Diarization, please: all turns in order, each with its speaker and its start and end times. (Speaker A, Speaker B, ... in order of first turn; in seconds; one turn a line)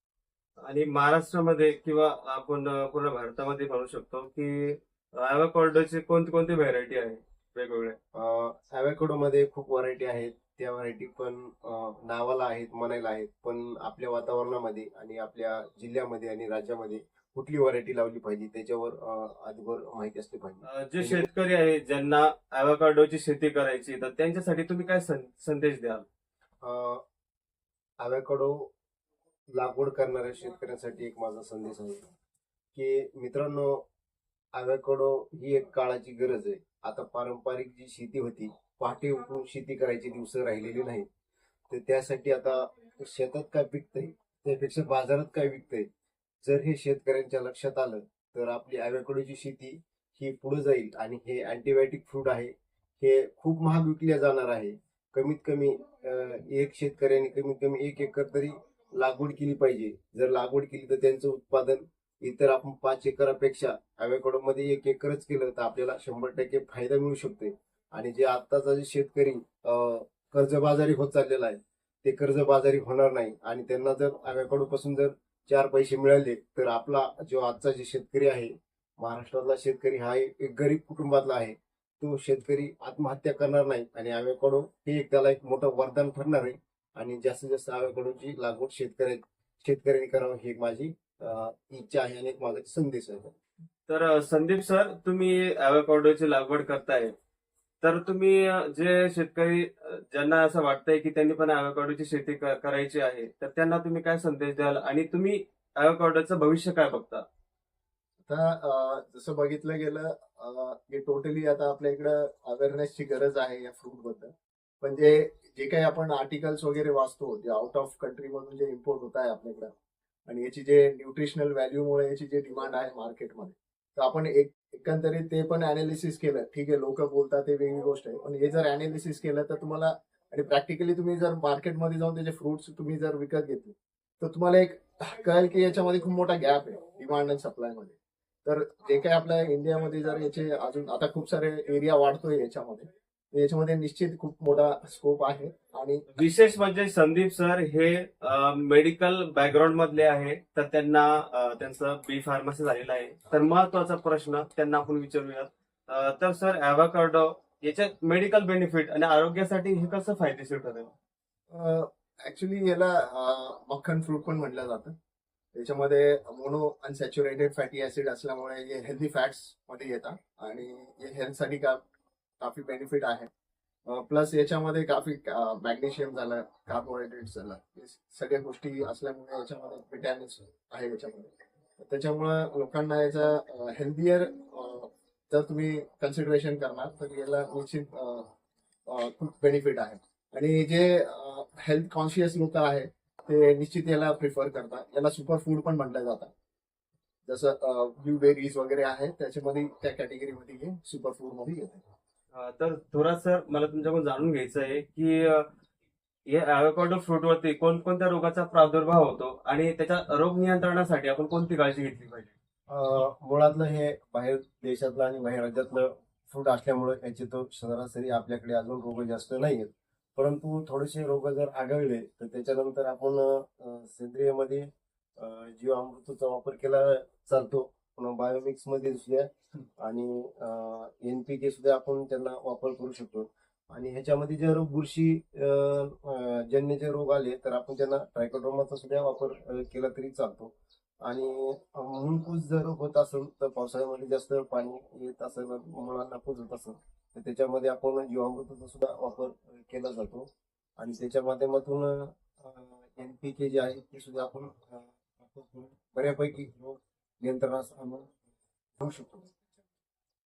Speaker A: 0.6-8.0
Speaker B: 8.1-21.2
Speaker A: 20.6-26.1
Speaker B: 26.6-27.0
Speaker B: 28.0-28.7
Speaker B: 29.5-32.0
Speaker B: 32.7-33.8
Speaker B: 34.5-41.1
Speaker B: 41.7-45.9
Speaker B: 46.4-93.3
Speaker A: 93.9-97.1
Speaker A: 97.8-107.2
Speaker C: 108.2-119.7
Speaker C: 120.3-146.0
Speaker A: 146.1-160.9
Speaker C: 161.5-164.9
Speaker C: 165.5-171.8
Speaker C: 172.4-173.3
Speaker C: 173.8-188.3
Speaker C: 188.9-196.3
Speaker C: 197.3-201.8
Speaker A: 202.3-205.5
Speaker A: 206.3-212.3
Speaker B: 212.7-240.5
Speaker B: 241.0-258.1
Speaker B: 258.8-259.3